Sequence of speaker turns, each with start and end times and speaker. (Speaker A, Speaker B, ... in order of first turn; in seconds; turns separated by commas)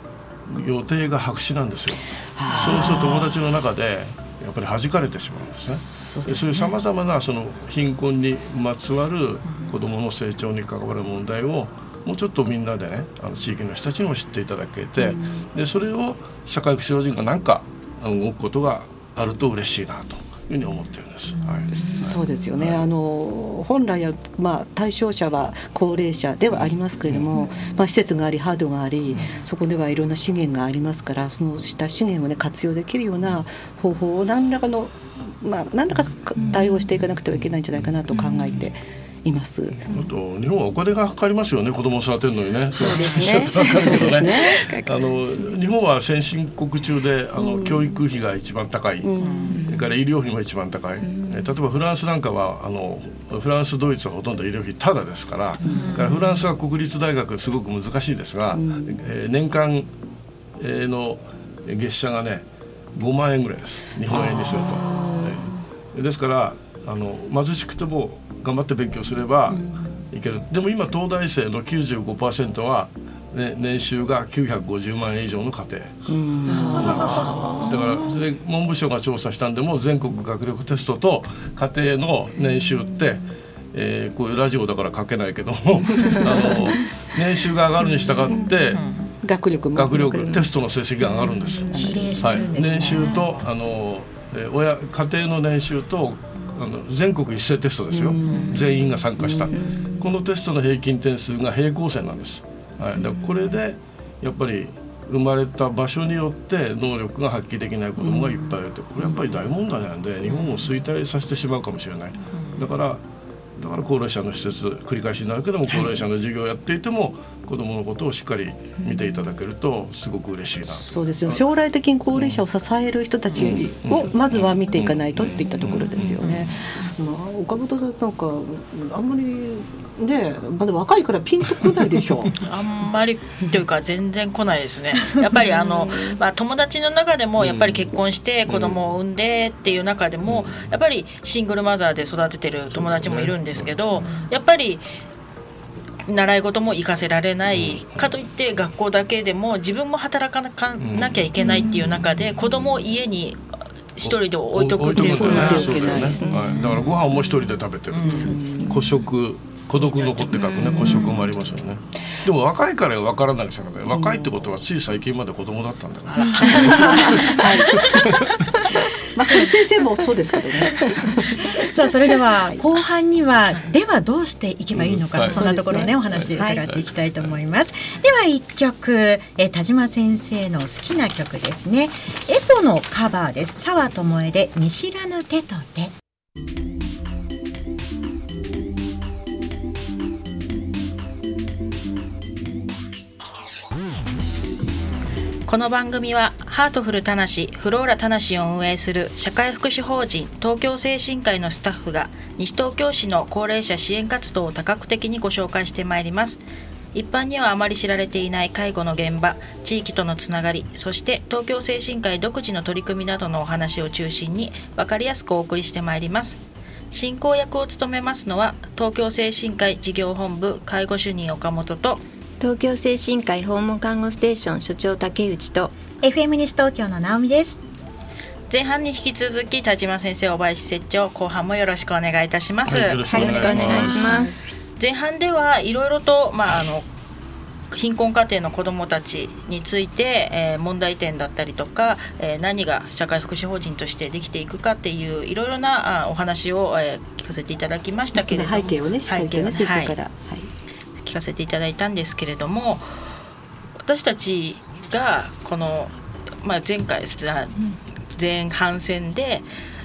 Speaker A: 0.5-22.8, Speaker B: 2.4-3.2, Speaker B: 5.7-6.7, Speaker B: 15.0-15.4, Speaker B: 21.7-39.9, Speaker A: 26.5-27.3, Speaker C: 36.5-36.9, Speaker A: 39.8-59.9, Speaker C: 42.7-45.5, Speaker B: 42.8-44.7, Speaker B: 47.4-47.9, Speaker B: 49.0-49.6, Speaker D: 49.2-49.6, Speaker C: 49.5-49.9, Speaker C: 51.0-51.5, Speaker B: 55.6-56.0, Speaker D: 55.8-56.2, Speaker B: 58.5-59.0, Speaker A: 60.6-76.0, Speaker B: 64.1-65.3, Speaker B: 69.5-70.0, Speaker B: 76.1-77.4, Speaker A: 76.6-88.8, Speaker D: 77.1-77.8, Speaker E: 77.1-77.4, Speaker B: 86.0-86.5, Speaker B: 88.3-90.5, Speaker D: 88.7-89.1, Speaker A: 89.7-113.0, Speaker B: 91.0-92.9, Speaker E: 91.7-93.4, Speaker B: 97.9-99.7, Speaker D: 98.2-98.5, Speaker C: 99.6-100.0, Speaker B: 108.0-109.4, Speaker D: 112.3-112.6, Speaker A: 113.6-121.4, Speaker B: 115.7-116.0, Speaker B: 120.7-132.3, Speaker A: 122.1-122.4, Speaker A: 123.4-126.6, Speaker D: 132.4-144.8, Speaker A: 137.4-137.9, Speaker A: 138.5-138.8, Speaker A: 140.2-140.7, Speaker A: 142.7-144.2, Speaker D: 146.1-153.4, Speaker A: 147.5-148.0, Speaker A: 150.8-151.5, Speaker D: 154.0-156.1, Speaker A: 154.0-168.7, Speaker B: 154.9-156.3, Speaker C: 155.0-156.8, Speaker D: 157.9-158.3, Speaker B: 158.0-158.8, Speaker C: 158.1-158.9, Speaker D: 159.8-160.5, Speaker B: 160.6-161.1, Speaker B: 163.9-164.3, Speaker D: 166.1-167.5, Speaker C: 166.4-166.7, Speaker B: 166.5-171.7, Speaker E: 171.1-185.9, Speaker B: 172.3-172.6, Speaker A: 174.7-175.4, Speaker B: 175.2-176.6, Speaker A: 176.1-177.4, Speaker D: 195.5-206.4, Speaker D: 206.9-216.4, Speaker D: 216.9-222.0, Speaker C: 222.4-225.7, Speaker E: 226.0-227.6, Speaker D: 228.5-233.0, Speaker A: 232.7-234.3, Speaker E: 233.1-234.2, Speaker C: 233.1-234.6, Speaker D: 234.8-236.9, Speaker D: 237.7-249.9, Speaker B: 248.1-250.5, Speaker D: 251.0-253.1, Speaker D: 253.8-259.4